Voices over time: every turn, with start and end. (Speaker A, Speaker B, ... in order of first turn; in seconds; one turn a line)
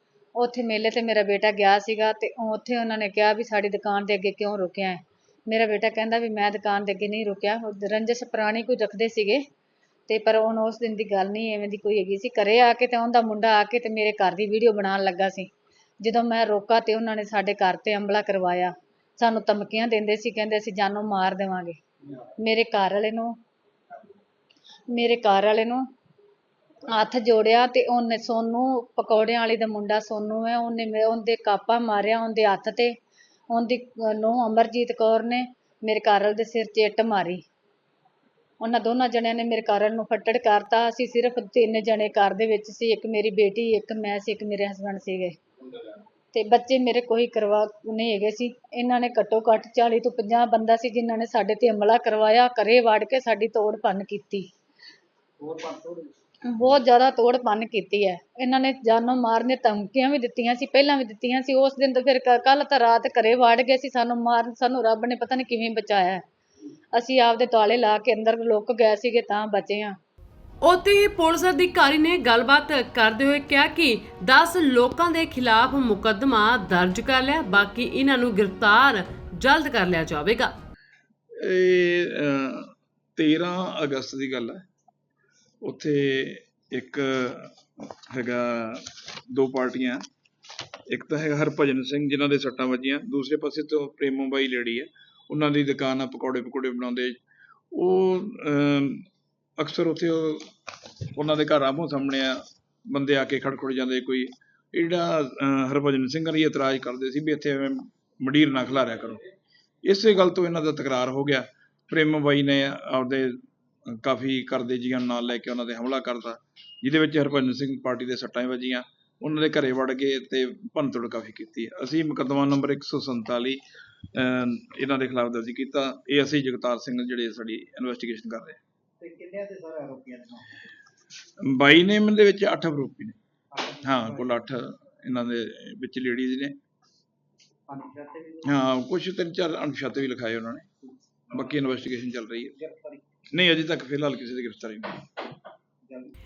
Speaker A: 0.4-9.4
Speaker A: 10.1-15.5
Speaker A: 16.0-21.8
Speaker A: 22.4-23.3
Speaker A: 24.9-25.8
Speaker A: 26.9-32.9
Speaker A: 33.5-37.4
Speaker A: 38.6-45.4
Speaker A: 46.3-54.5
Speaker B: 55.4-56.1
Speaker A: 56.5-66.2
Speaker A: 66.9-69.9
Speaker C: 70.6-80.5
Speaker D: 81.4-84.6
Speaker D: 85.6-87.5
Speaker D: 88.1-90.0
Speaker D: 90.9-97.2
Speaker D: 97.7-99.1
Speaker D: 99.6-100.5
Speaker D: 101.1-102.4
Speaker D: 102.9-109.2
Speaker D: 109.8-123.6
Speaker D: 124.1-128.6
Speaker B: 129.0-130.4
Speaker D: 131.4-133.2
Speaker B: 133.6-134.3
Speaker D: 133.8-136.6
Speaker B: 137.7-138.5
Speaker D: 138.5-140.7
Speaker D: 141.3-142.5
Speaker B: 142.6-143.0
Speaker D: 143.3-145.0